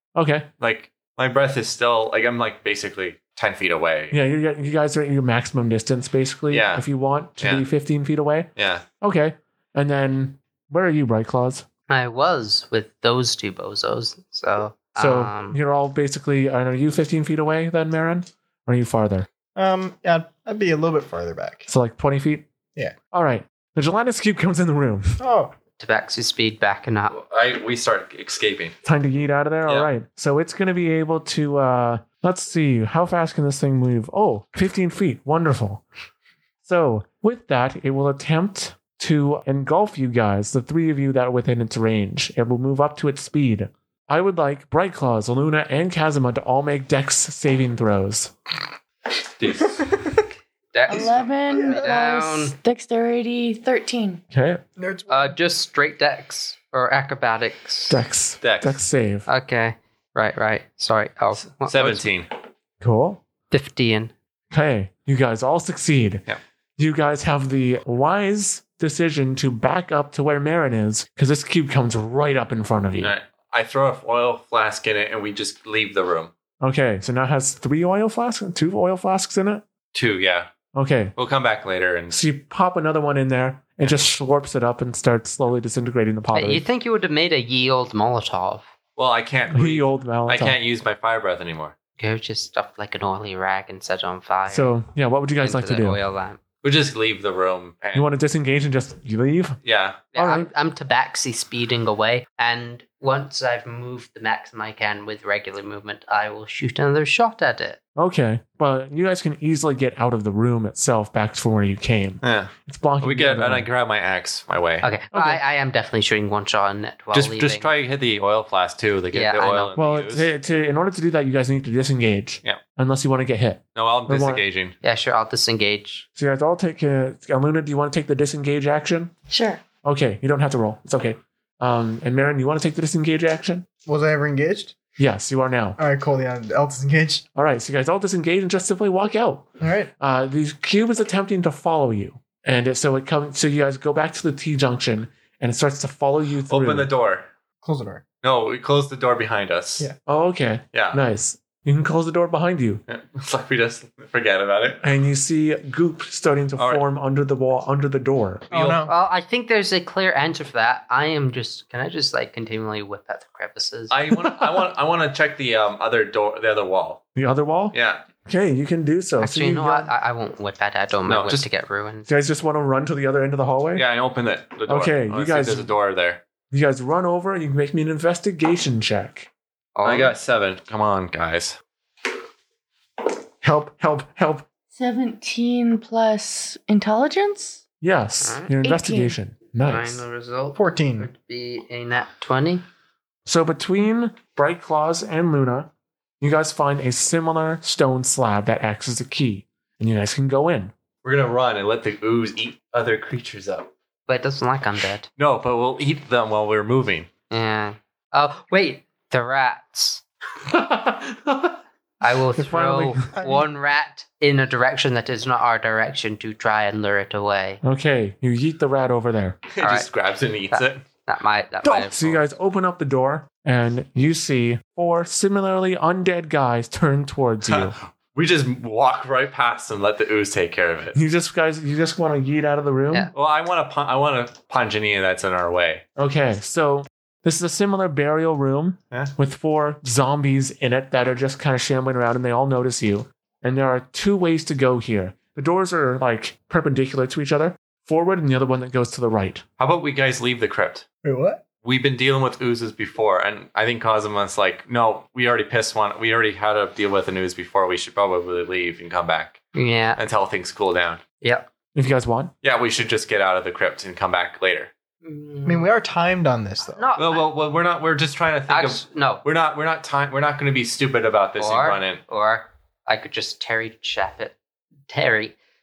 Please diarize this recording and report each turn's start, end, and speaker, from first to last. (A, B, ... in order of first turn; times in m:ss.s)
0:00.1-0:00.5 A
0:00.6-0:04.2 B
0:04.1-0:11.6 A
0:06.5-0:06.8 B
0:07.4-0:07.7 B
0:08.6-0:08.8 B
0:11.9-0:15.6 C
0:15.0-0:19.3 A
0:19.5-0:21.6 D
0:21.7-0:22.5 A
0:23.1-0:25.2 A
0:25.2-0:25.5 D
0:25.8-0:27.1 C
0:27.1-0:28.8 B
0:28.8-0:35.8 A
0:29.6-0:29.9 B
0:36.6-0:48.3 A
0:49.4-0:49.9 B
0:49.8-0:50.1 D
0:50.7-0:52.6 C
0:50.9-0:54.2 E
0:51.5-0:52.0 D
0:54.3-0:54.6 A
0:54.8-0:55.4 D
0:55.1-0:58.0 C
0:57.9-0:59.3 A
0:58.4-0:58.8 B
0:59.3-1:02.1 C
1:01.5-1:02.3 B
1:02.8-1:03.2 A
1:03.5-1:04.1 C
1:04.5-1:06.2 A
1:06.8-1:13.1 A
1:13.0-1:16.3 B
1:16.6-1:19.6 A
1:19.9-1:20.5 B
1:20.7-1:21.1 A
1:21.2-1:22.2 B
1:22.1-1:26.6 A
1:26.3-1:28.7 C
1:29.0-1:31.7 B
1:29.5-1:30.6 A
1:32.0-1:34.7 C
1:34.5-1:36.0 A
1:35.4-1:36.4 C
1:36.6-1:38.1 B
1:37.9-1:39.6 A
1:39.6-1:40.0 B
1:40.1-1:40.5 A
1:40.1-1:47.8 C
1:48.0-1:53.7 A
1:52.2-1:54.9 B
1:54.8-1:57.7 C
1:55.1-1:55.4 A
1:57.1-2:00.3 B
1:59.1-1:59.7 C
1:59.8-2:04.4 A
2:03.7-2:04.7 B
2:04.8-2:06.0 C
2:06.2-2:09.1 A
2:09.3-2:09.6 E
2:09.8-2:13.7 A
2:13.8-2:14.8 D
2:15.0-2:15.8 A
2:15.8-2:17.2 D
2:17.3-2:26.9 A
2:19.6-2:19.9 D
2:26.5-2:27.3 B
2:27.6-2:28.0 D
2:28.2-2:29.9 B
2:30.0-2:32.8 A
2:30.7-2:31.0 B
2:32.9-2:34.8 B
2:34.8-2:38.6 A
2:36.6-2:36.8 B
2:38.5-2:38.9 B
2:38.5-2:38.9 D
2:38.8-2:43.9 C
2:43.9-2:47.0 B
2:44.2-2:44.6 A
2:47.1-2:49.9 A
2:47.7-2:48.0 B
2:49.2-2:52.1 C
2:51.1-2:51.5 B
2:52.0-2:53.8 A
2:53.7-2:56.2 B
2:54.7-2:55.7 A
2:56.5-2:59.3 A
2:59.7-3:00.1 C
2:59.8-3:01.6 B
3:03.4-3:04.4 A
3:04.7-3:07.6 E
3:07.8-3:10.0 A
3:08.2-3:08.5 C
3:08.6-3:09.2 E
3:09.6-3:12.6 C
3:10.5-3:11.1 D
3:13.2-3:20.7 A
3:21.0-3:23.7 B
3:24.1-3:25.1 C
3:25.2-3:27.1 B
3:27.3-3:30.0 C
3:30.4-3:31.6 A
3:32.0-3:37.6 C
3:32.3-3:33.2 A
3:33.2-3:33.4 D
3:37.6-3:39.5 A
3:39.5-3:40.8 B
3:39.6-3:39.9 C
3:40.5-3:42.2 C
3:41.6-3:47.7 A
3:47.5-3:51.0 B
3:50.9-3:53.1 A
3:53.1-3:55.8 B
3:56.0-4:09.4 A
4:09.6-4:10.8 B
4:11.0-4:11.4 D
4:11.6-4:19.4 B
4:19.5-4:20.0 C
4:20.0-4:21.0 B
4:21.2-4:21.5 C
4:21.7-4:22.3 A
4:22.4-4:24.7 B
4:25.0-4:25.7 C
4:25.4-4:26.9 D
4:26.6-4:27.3 C
4:27.0-4:32.0 B
4:28.5-4:29.2 C
4:31.4-4:34.4 C
4:34.9-4:35.3 C